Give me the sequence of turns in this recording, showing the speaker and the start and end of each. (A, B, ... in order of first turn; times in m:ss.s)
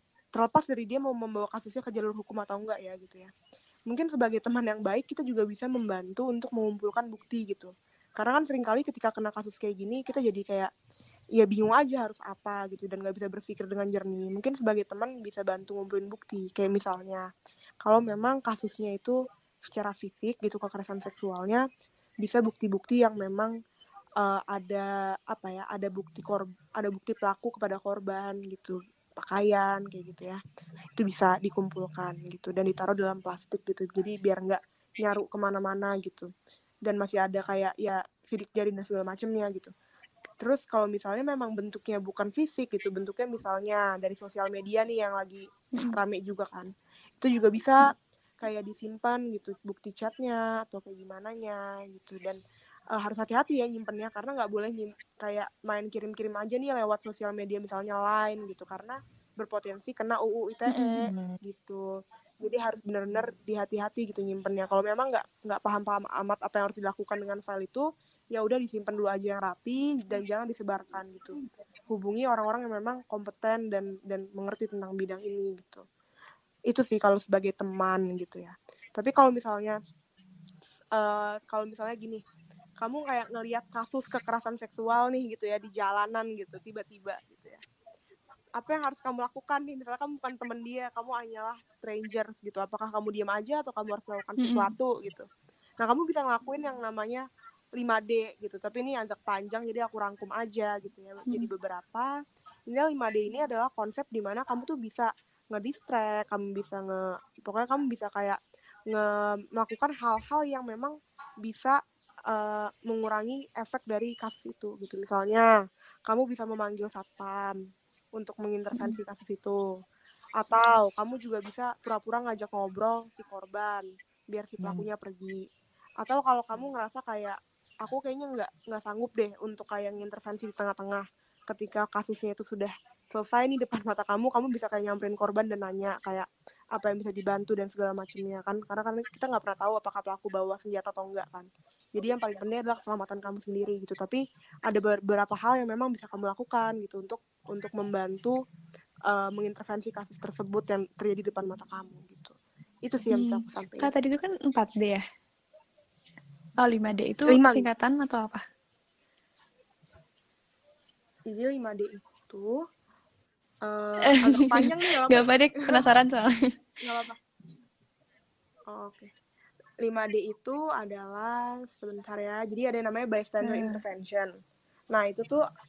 0:00.3-0:03.3 A
0:03.9-0:10.7 A
0:11.3-0:17.2 A
0:17.8-0:21.6 A
0:22.2-0:23.5 A
0:24.2-0:30.4 A
0:31.0-0:36.3 A
0:36.8-0:39.7 A
0:40.4-0:52.4 A
0:52.9-1:01.9 A
1:00.7-1:01.1 B
1:02.4-1:15.8 A
1:16.7-1:19.8 A
1:20.9-1:22.2 A
1:22.8-1:27.6 A
1:28.6-1:35.2 A
1:34.4-1:34.7 B
1:35.8-1:37.2 A
1:37.8-1:42.1 A
1:42.7-1:48.4 A
1:48.9-1:55.5 A
1:56.1-1:57.5 A
1:58.2-1:59.6 A
1:58.7-1:59.0 B
2:00.4-2:05.4 A
2:06.0-2:28.4 A
2:29.1-2:33.9 A
2:33.1-2:35.0 B
2:36.6-2:38.4 B
2:37.3-2:37.7 A
2:41.3-2:42.5 A
2:43.6-2:45.9 A
2:44.2-2:46.4 B
2:46.8-2:47.2 A
2:48.7-2:49.1 A
2:49.8-2:54.3 A
2:53.4-2:53.8 B
2:54.9-2:55.4 A